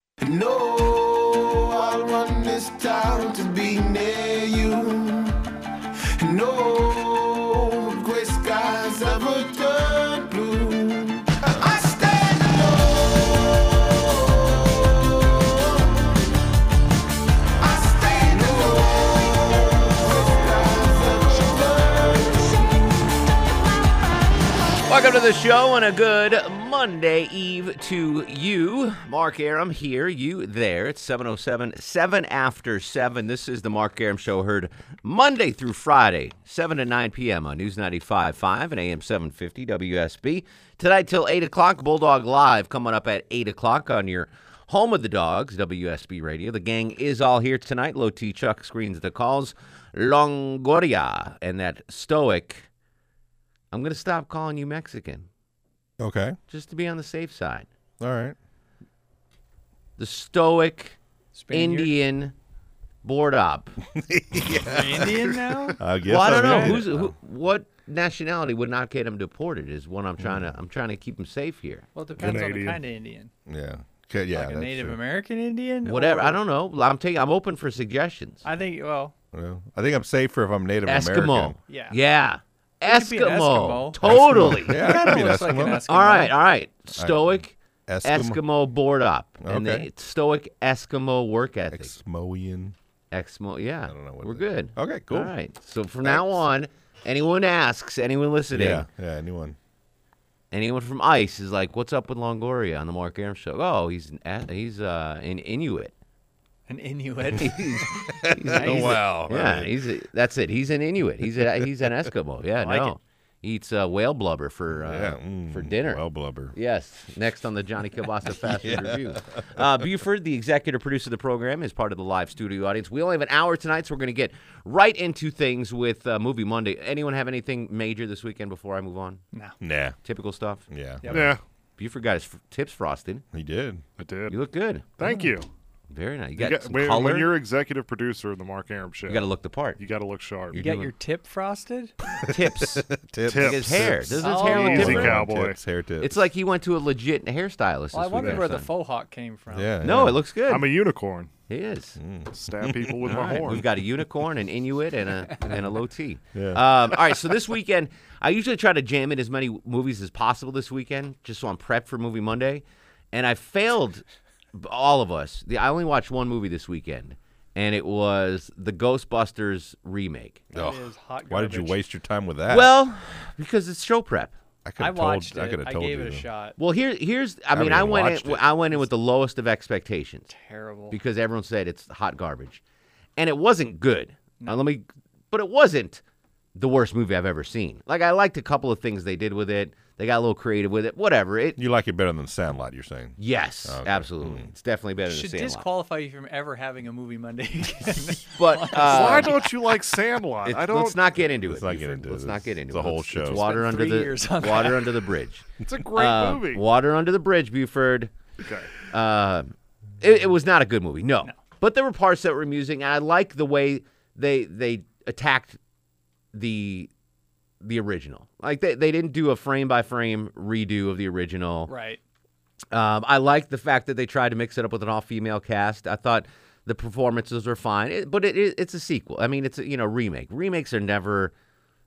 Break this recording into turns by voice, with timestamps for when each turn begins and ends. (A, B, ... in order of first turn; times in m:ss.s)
0:00.2-0:05.4 A
0:06.2-0:16.1 A
0:17.6-0:23.0 A
0:24.9-0:52.7 B
0:53.7-0:55.3 B
0:56.0-0:56.4 C
0:56.5-0:57.7 B
0:58.0-0:58.4 C
1:00.0-1:01.0 B
1:01.3-1:01.9 D
1:01.5-1:02.3 B
1:03.0-1:03.8 B
1:04.0-1:05.1 C
1:04.7-1:05.8 D
1:05.8-1:07.1 C
1:06.1-1:11.9 B
1:06.3-1:06.8 D
1:10.2-1:10.5 C
1:12.0-1:13.3 D
1:12.2-1:12.8 E
1:13.5-1:15.0 C
1:14.3-1:16.4 D
1:15.8-1:18.4 B
1:18.4-1:19.1 D
1:19.3-1:21.6 C
1:20.9-1:25.3 B
1:21.7-1:22.0 D
1:22.8-1:26.4 D
1:24.0-1:25.8 C
1:25.9-1:31.9 B
1:26.9-1:28.4 C
1:29.4-1:29.9 C
1:31.7-1:32.7 C
1:33.1-1:38.9 B
1:33.9-1:35.3 C
1:36.0-1:36.4 C
1:38.5-1:39.6 C
1:40.5-1:45.9 B
1:46.7-1:47.7 D
1:47.3-2:09.2 B
1:48.2-1:49.8 C
1:48.6-1:49.0 D
1:52.6-1:53.0 D
1:54.8-1:56.6 C
1:58.4-1:59.6 C
2:09.3-2:09.6 D
2:09.6-2:10.0 C
2:10.0-2:13.2 B
2:10.7-2:11.3 C
2:11.0-2:11.3 D
2:11.1-2:11.4 E
2:13.3-2:13.8 C
2:14.0-2:14.4 E
2:14.3-2:14.9 B
2:15.0-2:15.5 E
2:15.0-2:15.3 C
2:15.9-2:17.3 B
2:16.4-2:19.2 E
2:19.1-2:19.8 B
2:19.8-2:20.6 E
2:20.5-2:20.9 B
2:20.5-2:21.9 D
2:22.3-2:22.8 B
2:22.4-2:26.2 C
2:23.3-2:23.9 E
2:23.4-2:25.2 B
2:24.2-2:25.0 D
2:24.5-2:25.6 E
2:26.0-2:28.7 B
2:27.9-2:29.8 D
2:29.5-2:30.2 C
2:29.8-2:30.7 B
2:30.5-2:31.3 E
2:31.5-2:32.0 B
2:32.0-2:33.6 C
2:32.3-2:33.6 E
2:33.0-2:44.0 B
2:36.3-2:36.6 C
2:44.5-2:50.4 B
2:50.5-2:51.8 D
2:50.5-2:52.7 C
2:52.5-2:54.3 B
2:54.6-2:56.2 C
2:54.8-2:56.6 D
2:56.6-3:00.3 B
2:57.5-2:58.5 C
3:00.3-3:01.0 D
3:00.9-3:02.6 B
3:03.2-3:06.0 B
3:06.6-3:11.6 B
3:11.6-3:14.5 C
3:13.2-3:15.7 B
3:15.1-3:19.4 D
3:18.4-3:19.5 B
3:18.9-3:21.1 E
3:20.4-3:28.1 B
3:21.4-3:23.4 C
3:23.2-3:25.0 D
3:25.6-3:26.6 E
3:28.4-3:28.7 E
3:28.9-3:35.6 B
3:36.3-3:36.9 B
3:37.6-3:41.7 B
3:41.7-3:42.0 D
3:42.7-3:51.3 B